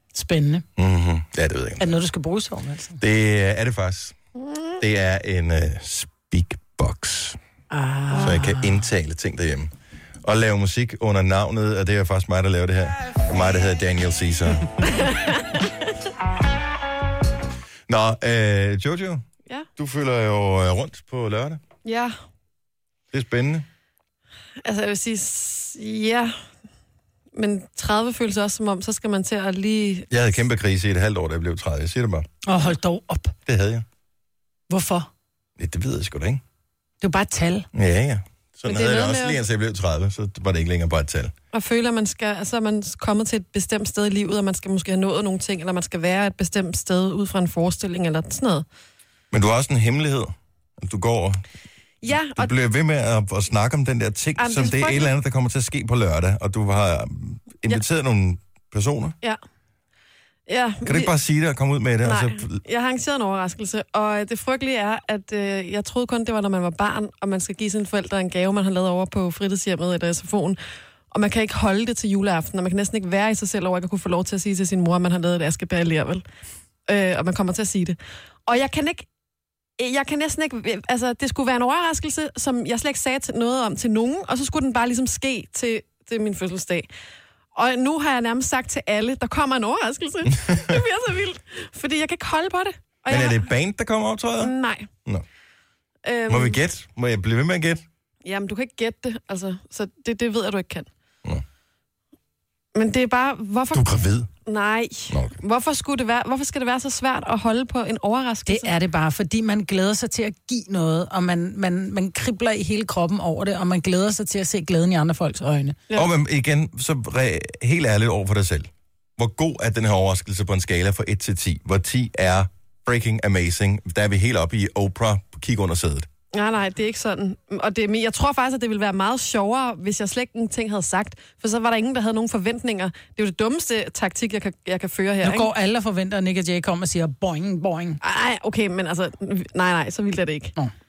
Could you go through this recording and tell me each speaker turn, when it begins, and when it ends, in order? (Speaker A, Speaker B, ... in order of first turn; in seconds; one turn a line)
Speaker A: 0.1-0.7
Speaker B: 0.8-2.0
Speaker A: 1.8-3.0
Speaker B: 3.0-4.2
Speaker C: 4.4-4.8
Speaker B: 4.8-7.4
Speaker A: 7.7-8.8
Speaker B: 8.2-9.7
Speaker B: 10.2-14.7
Speaker C: 14.9-15.5
Speaker B: 17.9-19.2
Speaker B: 19.8-21.6
Speaker C: 21.9-22.1
Speaker B: 23.1-23.7
Speaker C: 24.6-26.4
Speaker C: 27.4-30.1
Speaker B: 30.1-32.3
Speaker A: 32.5-33.3
Speaker B: 33.5-33.9
Speaker A: 34.7-35.1
Speaker B: 35.6-36.4
Speaker A: 37.0-37.7
Speaker B: 37.7-41.3
Speaker C: 38.7-39.4
Speaker C: 41.5-48.6
Speaker B: 49.3-51.4
Speaker C: 52.0-52.5
Speaker B: 52.1-59.2
Speaker C: 54.4-55.1
Speaker C: 60.5-61.1
Speaker B: 60.9-62.6
Speaker C: 62.0-70.6
Speaker C: 71.1-76.2
Speaker C: 76.9-79.1
Speaker C: 79.8-86.9
Speaker C: 87.5-93.5
Speaker B: 90.3-90.8
Speaker B: 93.1-94.5
Speaker C: 94.4-94.9
Speaker C: 96.0-96.6
Speaker B: 96.3-97.8
Speaker C: 98.2-100.9
Speaker C: 102.8-103.9
Speaker B: 103.7-104.3
Speaker C: 104.5-108.7
Speaker B: 105.1-105.4
Speaker A: 108.5-115.8
Speaker B: 115.9-126.1
Speaker C: 126.3-135.5
Speaker A: 135.2-138.0
Speaker C: 138.0-140.5